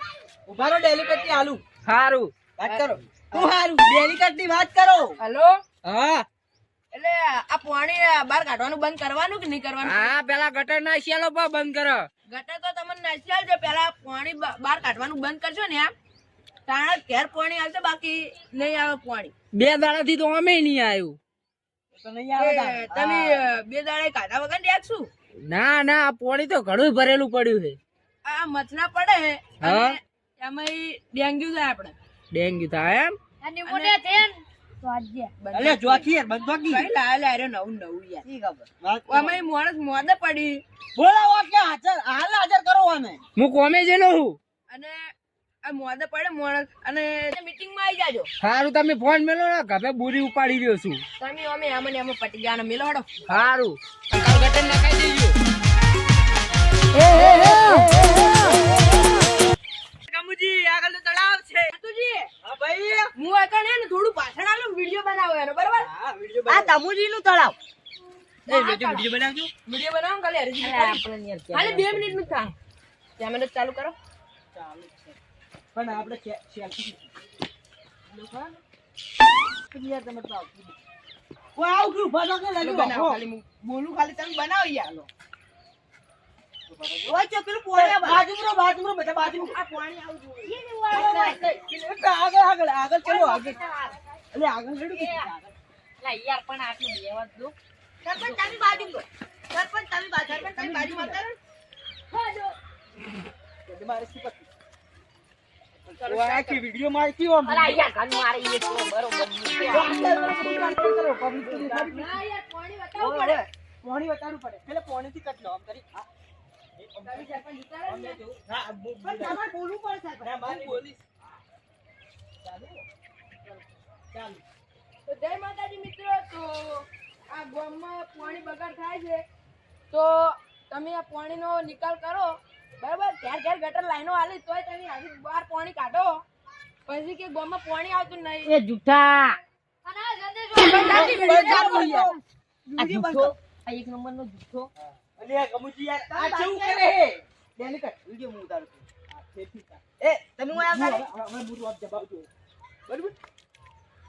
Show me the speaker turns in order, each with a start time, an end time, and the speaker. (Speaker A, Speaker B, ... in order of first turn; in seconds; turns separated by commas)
Speaker A: 0.5-1.6, Speaker B: 1.9-2.3, Speaker A: 2.6-5.2, Speaker C: 5.2-5.6, Speaker A: 5.9-6.2, Speaker C: 6.9-10.2, Speaker B: 9.8-12.1, Speaker C: 12.3-15.9, Speaker C: 16.7-19.3, Speaker B: 19.5-21.2, Speaker A: 21.9-23.4, Speaker C: 22.4-25.1, Speaker B: 25.4-27.8, Speaker C: 28.2-32.0, Speaker B: 29.6-30.0, Speaker B: 32.3-33.2, Speaker D: 33.4-35.4, Speaker C: 33.7-34.0, Speaker C: 35.4-36.1, Speaker A: 35.5-36.9, Speaker C: 36.7-38.2, Speaker E: 38.2-38.7, Speaker A: 38.8-39.4, Speaker C: 39.1-40.6, Speaker A: 41.0-43.2, Speaker B: 43.4-44.4, Speaker C: 44.7-48.3, Speaker B: 48.4-51.0, Speaker C: 51.2-53.1, Speaker B: 53.3-55.3, Speaker A: 60.1-61.7, Speaker C: 61.7-62.3, Speaker A: 62.4-63.1, Speaker C: 63.2-65.9, Speaker A: 65.8-66.8, Speaker E: 66.5-67.6, Speaker C: 68.5-69.1, Speaker A: 68.5-69.5, Speaker C: 69.7-72.5, Speaker F: 70.6-72.3, Speaker C: 73.2-74.0, Speaker A: 74.5-75.2, Speaker A: 75.7-77.1, Speaker A: 79.7-80.8, Speaker A: 81.6-83.2, Speaker C: 82.6-85.0, Speaker A: 83.8-85.0, Speaker A: 86.7-87.2, Speaker E: 87.1-88.2, Speaker A: 87.8-93.6, Speaker E: 90.4-91.5, Speaker F: 93.1-93.9, Speaker A: 94.3-95.5, Speaker F: 94.9-95.3, Speaker F: 96.0-97.5, Speaker E: 98.0-101.3, Speaker F: 98.2-98.9, Speaker A: 100.3-101.2, Speaker C: 102.1-102.6, Speaker A: 103.7-104.5, Speaker C: 106.0-106.6, Speaker A: 106.0-107.8, Speaker F: 107.5-109.9, Speaker A: 109.7-112.2, Speaker C: 111.5-113.4, Speaker E: 113.0-113.5, Speaker A: 113.8-116.1, Speaker A: 116.8-119.4, Speaker C: 117.0-118.2, Speaker E: 119.0-120.3, Speaker A: 120.2-120.8, Speaker C: 120.5-121.0, Speaker A: 122.4-122.8, Speaker A: 124.1-124.4, Speaker C: 125.1-129.2, Speaker C: 129.9-136.2, Speaker C: 136.9-138.5, Speaker F: 138.4-139.4, Speaker D: 139.8-142.2, Speaker C: 140.7-142.1, Speaker A: 140.9-142.2, Speaker E: 141.2-142.0, Speaker F: 142.7-144.7, Speaker E: 142.8-143.4, Speaker A: 144.8-148.0, Speaker E: 146.1-146.9, Speaker E: 147.9-148.8, Speaker A: 149.1-149.8, Speaker E: 150.0-151.1, Speaker A: 150.5-152.3, Speaker A: 152.9-153.2